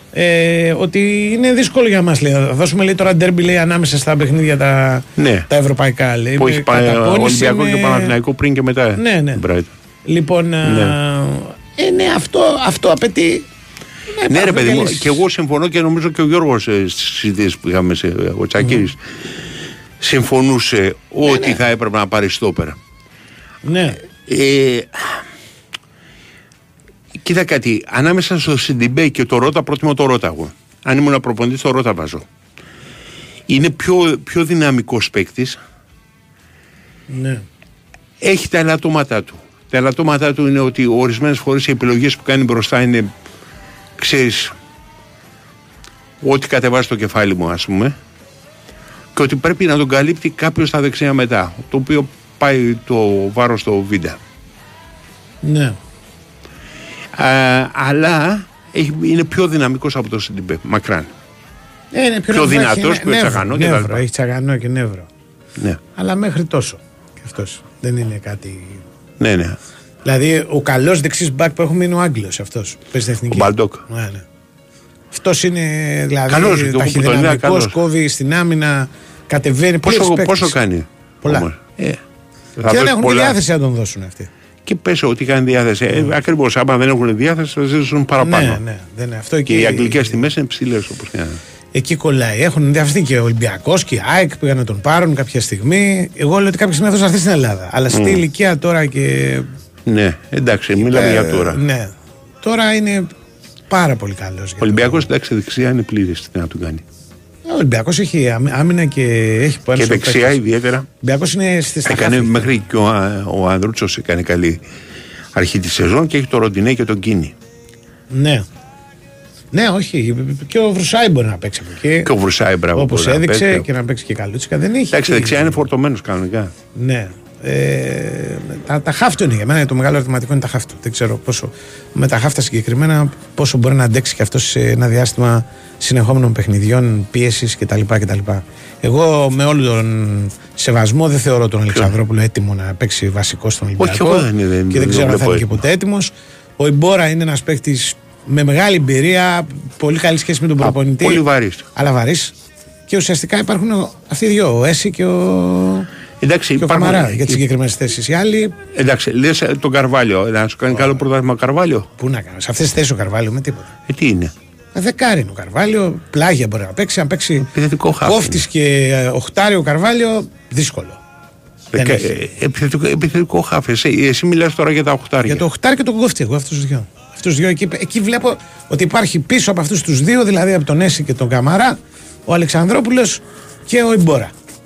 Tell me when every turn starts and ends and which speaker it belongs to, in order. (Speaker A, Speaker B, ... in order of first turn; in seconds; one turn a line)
Speaker A: 0.1-8.1
Speaker B: 5.2-5.5
Speaker B: 6.4-9.7
Speaker A: 9.0-9.4
Speaker A: 10.1-13.4
Speaker B: 10.6-10.9
Speaker A: 14.1-15.2
Speaker B: 14.3-19.0
Speaker B: 20.0-22.8
Speaker A: 21.2-21.6
Speaker A: 23.6-24.0
Speaker B: 24.3-25.2
Speaker B: 27.2-32.2
Speaker B: 33.5-35.6
Speaker A: 37.1-37.4
Speaker B: 38.2-43.1
Speaker B: 44.0-44.5
Speaker B: 46.2-47.9
Speaker B: 49.1-54.2
Speaker A: 55.4-55.8
Speaker B: 57.1-61.1
Speaker A: 61.9-65.1
Speaker B: 62.3-64.0
Speaker A: 66.0-68.8
Speaker B: 69.2-69.6
Speaker A: 70.0-74.2
Speaker B: 73.3-73.8
Speaker A: 75.1-80.5
Speaker B: 76.3-77.7
Speaker B: 79.8-82.0
Speaker B: 82.6-83.4
Speaker A: 82.7-84.3
Speaker B: 84.7-88.6
Speaker A: 88.2-90.2
Speaker B: 89.5-91.4
Speaker A: 91.7-99.5
Speaker B: 97.9-98.2
Speaker B: 99.9-101.6
Speaker A: 100.8-103.1
Speaker A: 103.7-105.1
Speaker B: 104.6-106.8
Speaker A: 107.4-110.4
Speaker B: 109.8-110.9
Speaker A: 111.0-112.6
Speaker B: 111.8-114.6
Speaker B: 115.3-117.3
Speaker A: 118.1-118.5
Speaker A: 119.5-122.1
Speaker B: 122.0-123.6
Speaker A: 122.7-125.6
Speaker B: 124.9-126.5
Speaker A: 126.8-151.2
Speaker B: 143.8-145.6
Speaker B: 150.6-151.7
Speaker A: 151.7-152.3
Speaker A: 152.9-155.9
Speaker B: 156.2-157.4
Speaker A: 156.6-158.6
Speaker B: 158.7-161.9
Speaker A: 162.0-163.7
Speaker B: 163.9-164.3
Speaker A: 164.7-167.5
Speaker B: 167.4-168.4
Speaker A: 168.0-171.0
Speaker B: 171.7-175.4
Speaker A: 171.8-172.1
Speaker A: 175.2-184.3